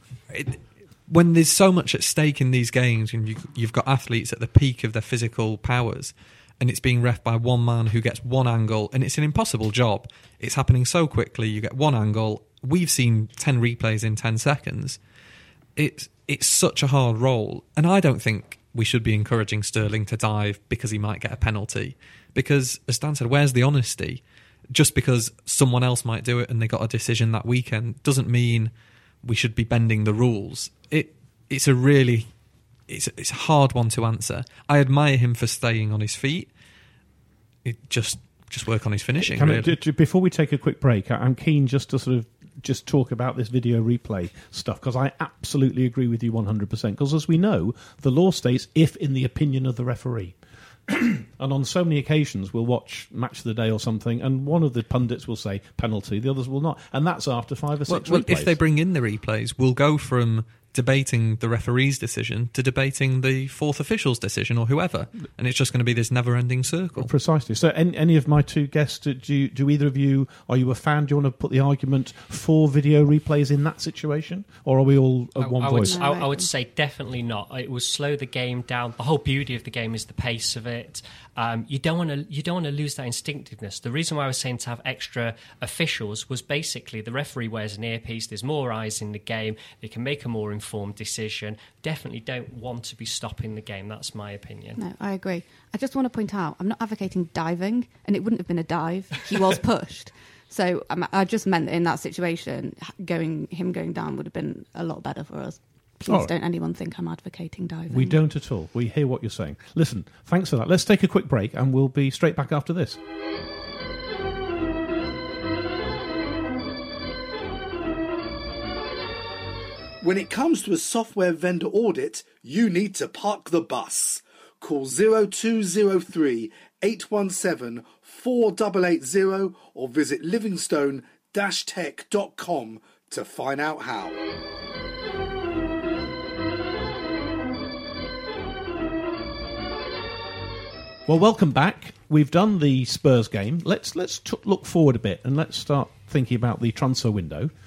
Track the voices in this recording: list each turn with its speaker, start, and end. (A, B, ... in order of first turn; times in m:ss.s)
0:00.3-0:15.0 A
0:15.8-0:28.7 A
0:29.2-0:32.3 A
0:32.9-0:36.5 A
0:37.6-0:39.7 A
0:39.2-0:58.5 B
0:57.9-1:07.1 A
1:07.0-1:16.0 B
1:15.4-1:34.8 C
1:15.8-1:16.5 D
1:34.8-1:48.2 D
1:46.1-1:46.3 B
1:47.9-1:53.0 B
2:00.0-2:14.2 E
2:21.1-2:27.5 B